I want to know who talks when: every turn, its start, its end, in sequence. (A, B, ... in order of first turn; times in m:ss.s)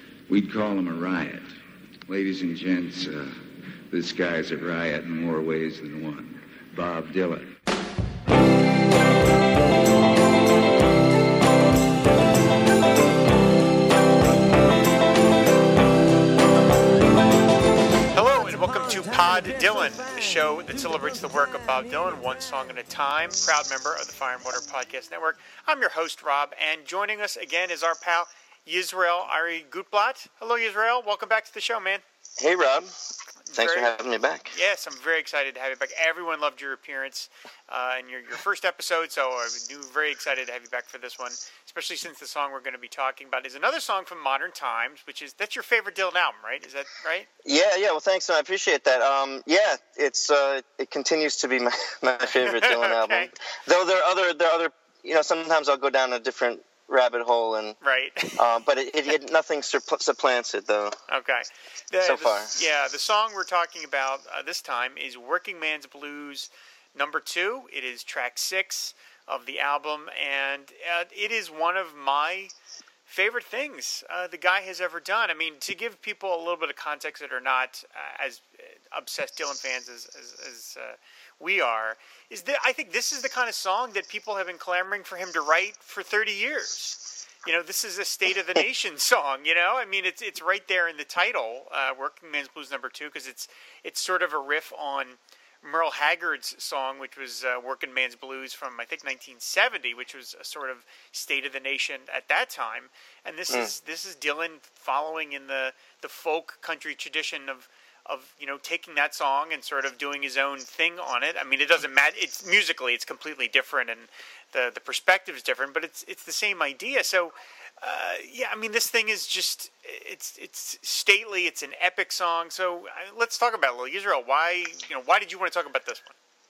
0:00.3-0:01.6 A
0:02.1-0:03.4 A
0:03.9-0:07.6 A
0:18.1-0:32.0 B
0:32.4-0:32.9 C
0:33.5-0:33.9 B
0:33.6-0:34.5 C
0:34.5-0:47.3 B
0:47.4-0:57.8 C
0:52.2-0:53.3 B
0:57.8-0:58.5 B
0:58.4-1:01.0 C
1:01.1-1:12.5 B
1:02.0-1:02.5 C
1:13.1-2:06.2 B